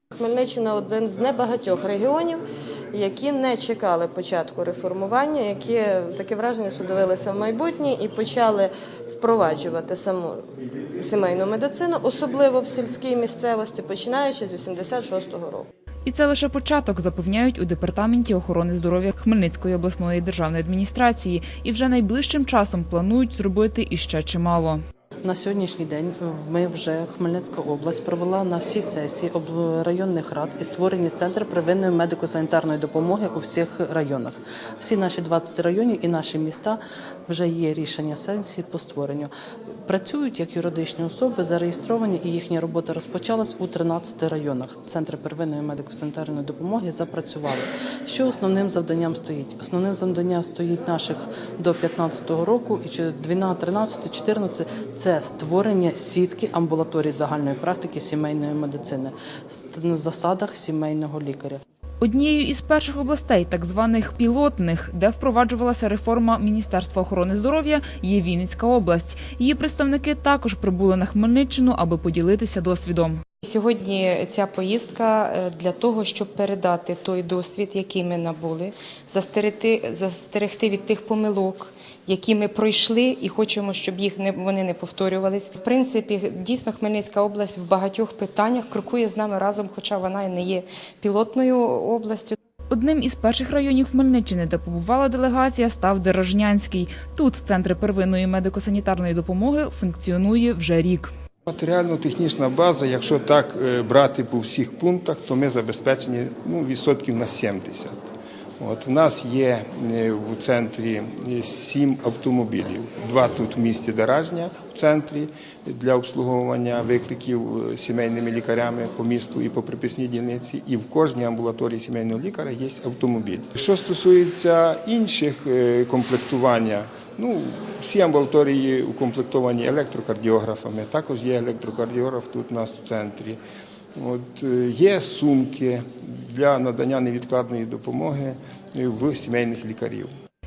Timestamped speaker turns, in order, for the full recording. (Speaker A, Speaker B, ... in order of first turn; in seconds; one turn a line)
Speaker A: 1.8-2.4
Speaker A: 2.9-6.4
Speaker A: 6.9-8.5
Speaker A: 9.2-9.9
Speaker A: 12.1-12.4
Speaker B: 16.1-24.8
Speaker C: 25.2-39.3
Speaker C: 39.9-61.6
Speaker B: 62.0-73.2
Speaker D: 73.4-92.4
Speaker B: 92.7-101.1
Speaker E: 101.5-108.0
Speaker E: 108.6-133.4
Speaker E: 134.0-140.1